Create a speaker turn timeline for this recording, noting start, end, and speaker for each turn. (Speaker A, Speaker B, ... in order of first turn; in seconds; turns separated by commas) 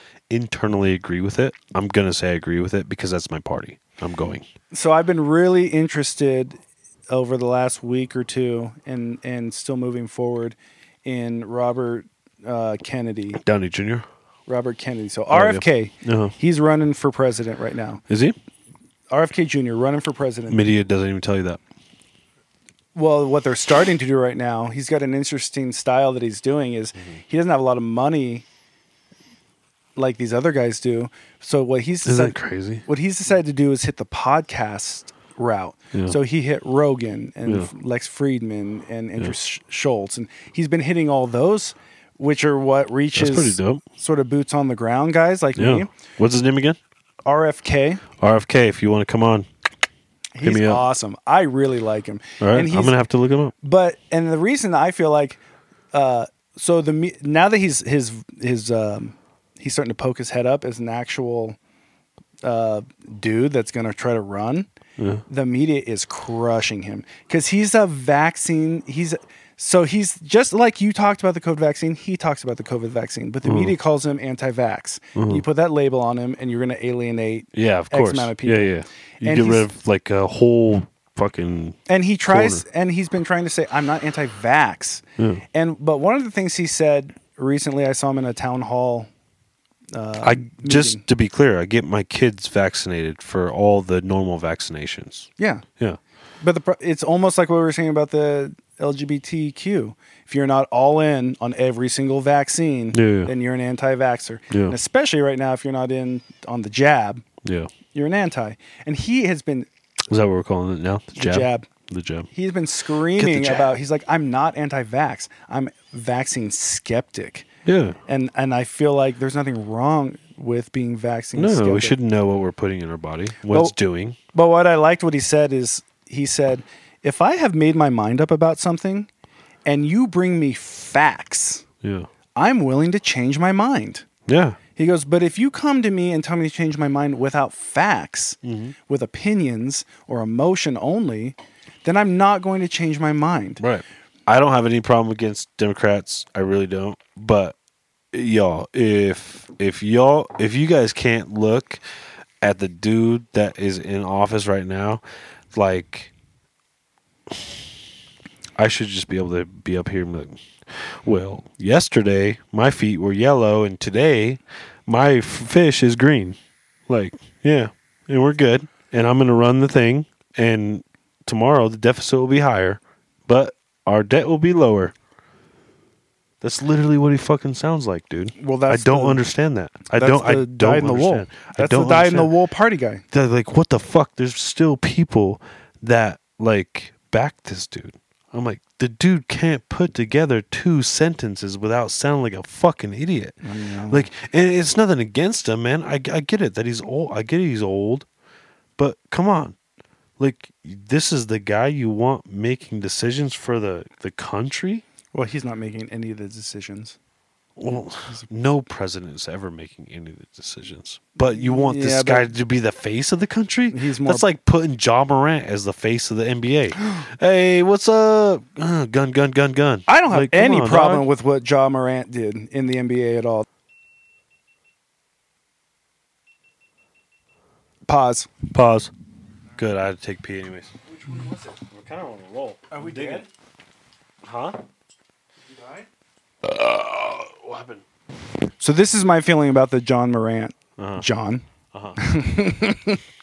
Speaker A: 0.3-4.5, Speaker B: 4.7-13.4, Speaker A: 13.3-14.1, Speaker B: 14.5-18.0, Speaker A: 15.3-16.4, Speaker A: 18.1-18.4, Speaker B: 19.1-20.6, Speaker A: 20.5-21.6, Speaker B: 22.9-28.5, Speaker B: 30.0-45.9, Speaker A: 32.0-32.9, Speaker A: 37.5-37.7, Speaker A: 43.1-43.8, Speaker A: 45.6-46.8, Speaker B: 47.3-48.0, Speaker A: 48.2-49.5, Speaker B: 50.4-53.0, Speaker A: 50.4-50.8, Speaker A: 52.4-53.5, Speaker B: 53.6-55.4, Speaker B: 55.9-61.6, Speaker B: 62.4-64.7, Speaker A: 65.0-65.2, Speaker B: 65.3-79.7, Speaker A: 73.4-73.7, Speaker A: 75.2-75.4, Speaker A: 77.5-82.6, Speaker B: 81.9-89.1, Speaker B: 89.9-91.0, Speaker A: 90.2-96.0, Speaker B: 95.4-95.7, Speaker B: 96.4-107.2, Speaker A: 102.9-103.3, Speaker A: 104.5-104.8, Speaker A: 107.4-107.7, Speaker B: 107.9-109.7, Speaker A: 110.1-112.3, Speaker B: 111.1-111.7, Speaker B: 112.3-117.5, Speaker A: 113.2-113.7, Speaker A: 117.7-118.0, Speaker B: 118.1-122.0, Speaker A: 121.3-124.2, Speaker B: 124.3-129.1, Speaker B: 129.7-131.7, Speaker A: 131.8-132.1, Speaker B: 132.3-134.1, Speaker A: 134.3-134.6, Speaker B: 134.8-143.6, Speaker A: 138.4-138.8, Speaker A: 143.6-147.6, Speaker A: 148.1-151.8, Speaker A: 152.4-156.1, Speaker A: 158.6-166.4, Speaker A: 166.9-174.9, Speaker A: 176.4-182.3, Speaker B: 178.4-179.2, Speaker B: 179.9-183.0, Speaker A: 183.1-193.3, Speaker B: 193.4-194.1, Speaker A: 193.9-198.1, Speaker A: 198.8-199.6, Speaker A: 200.2-204.8, Speaker B: 205.1-207.0, Speaker A: 207.6-221.1, Speaker B: 211.2-212.3, Speaker B: 213.7-214.3, Speaker B: 219.9-223.5, Speaker B: 227.9-228.3, Speaker A: 228.5-228.9, Speaker A: 229.6-230.7, Speaker B: 230.9-231.6, Speaker A: 231.6-233.3, Speaker B: 232.7-233.3, Speaker A: 234.2-234.6, Speaker B: 235.5-235.9, Speaker A: 236.4-237.8, Speaker B: 238.6-241.4, Speaker A: 240.8-241.1, Speaker A: 241.7-242.0, Speaker B: 242.0-243.0